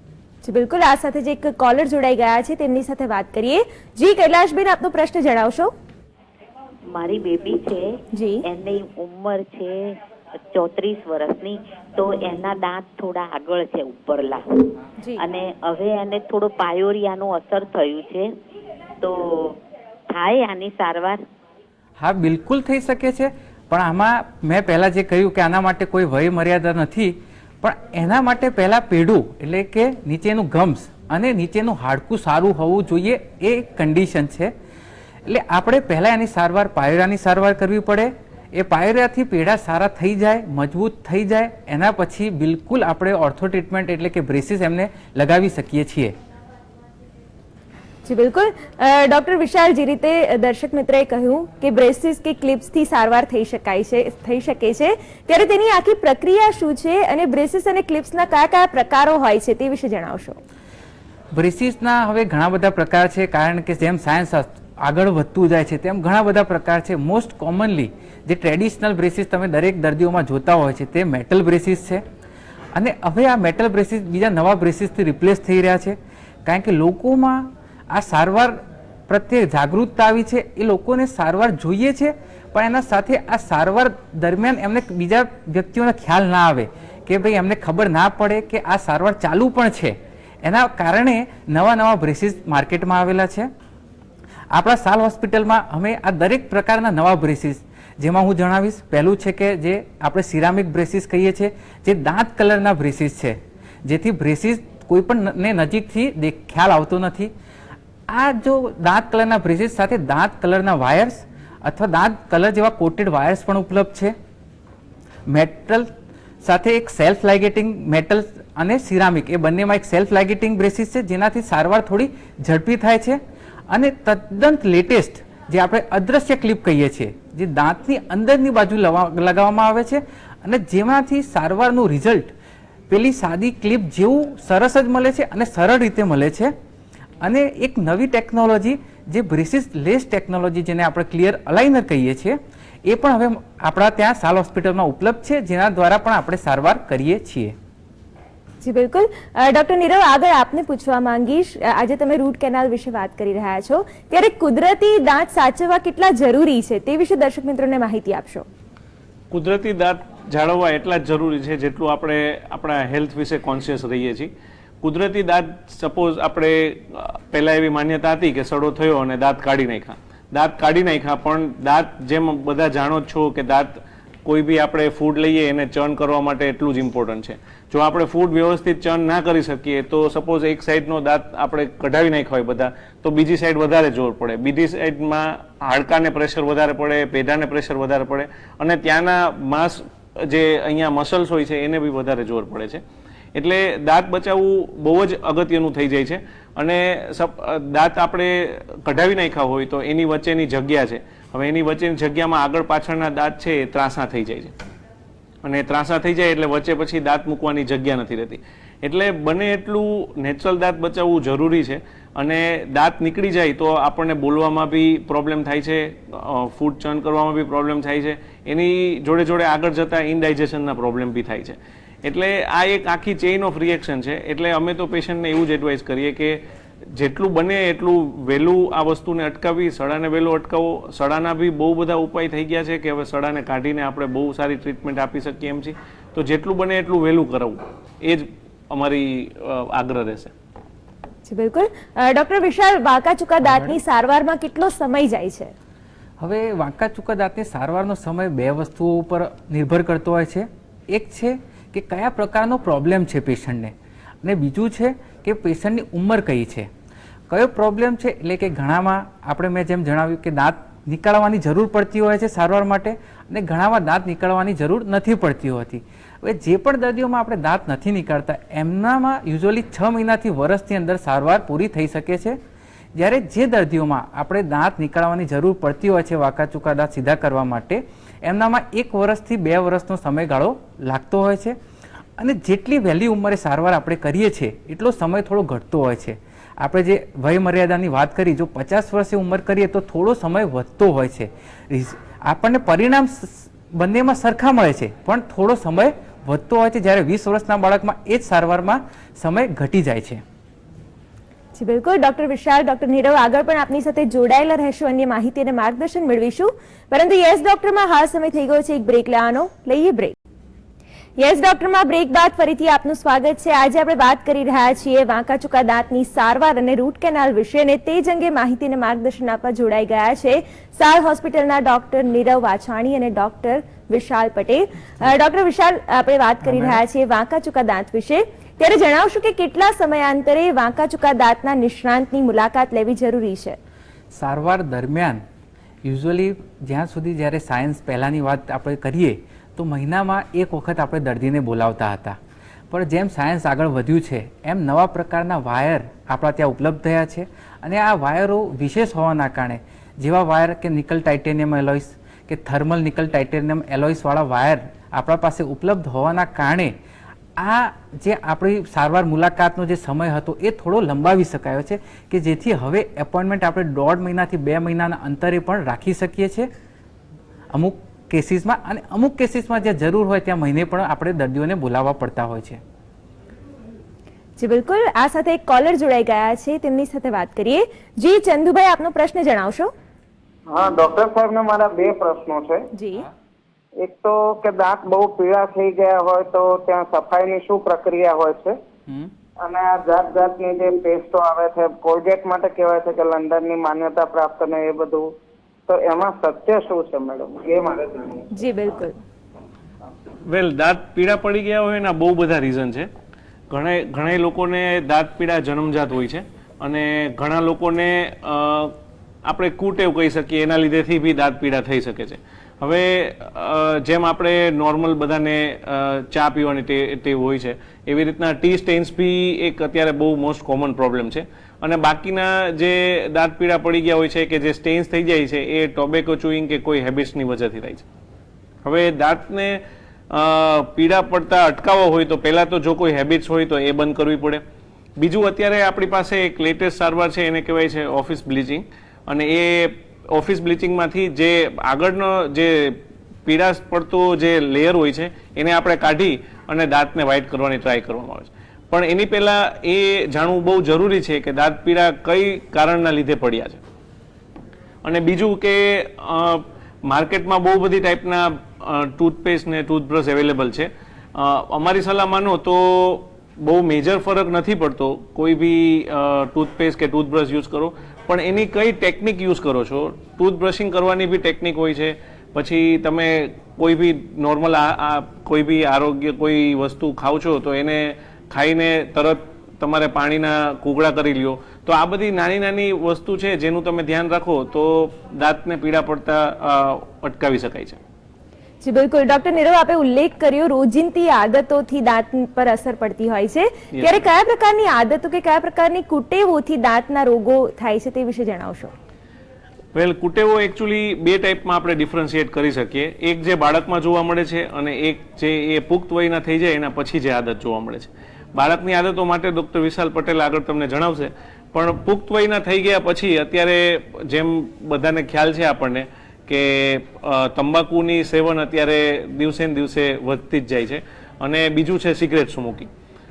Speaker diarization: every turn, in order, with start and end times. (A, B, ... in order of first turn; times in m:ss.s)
0:00.4-0:05.7 A
0:06.9-0:18.3 B
0:08.1-0:08.4 A
0:19.0-0:19.6 B
0:20.1-0:21.2 B
0:22.0-0:34.5 C
0:35.2-0:46.1 C
0:48.0-1:00.4 A
1:01.3-1:12.0 C
1:12.7-1:33.5 C
1:34.5-1:47.3 C
1:48.1-1:54.1 C
1:55.3-1:55.9 C
1:56.4-2:03.2 C
2:03.7-2:12.3 C
2:12.9-2:16.5 C
2:17.2-2:27.6 C
2:28.6-2:38.5 A
2:39.3-2:44.3 D
2:44.8-3:12.8 D
3:13.3-3:24.5 D
3:25.4-3:46.4 D
3:46.9-4:00.3 D
4:01.2-4:05.5 A
4:03.5-4:03.7 C
4:06.2-4:16.7 C
4:17.3-4:32.4 C
4:32.9-4:41.6 C
4:42.2-5:00.2 C
5:01.5-5:10.2 A
5:11.2-5:33.6 A
5:26.4-5:26.8 C
5:34.1-5:35.2 C
5:35.8-5:42.2 C
5:42.7-5:56.7 C
5:57.4-6:06.5 C
6:07.5-6:12.6 C
6:14.4-6:19.7 A
6:20.5-6:22.7 E
6:22.7-6:23.1 A
6:23.8-6:28.6 E
6:29.4-6:35.1 E
6:35.7-6:38.3 E
6:38.3-6:39.0 A
6:40.2-6:42.9 D
6:43.5-6:48.7 D
6:49.2-7:07.8 D
7:08.6-7:14.4 D
7:15.0-7:33.6 D
7:34.8-8:07.8 D
8:08.6-8:18.7 A
8:13.8-8:14.0 D
8:19.7-8:42.7 D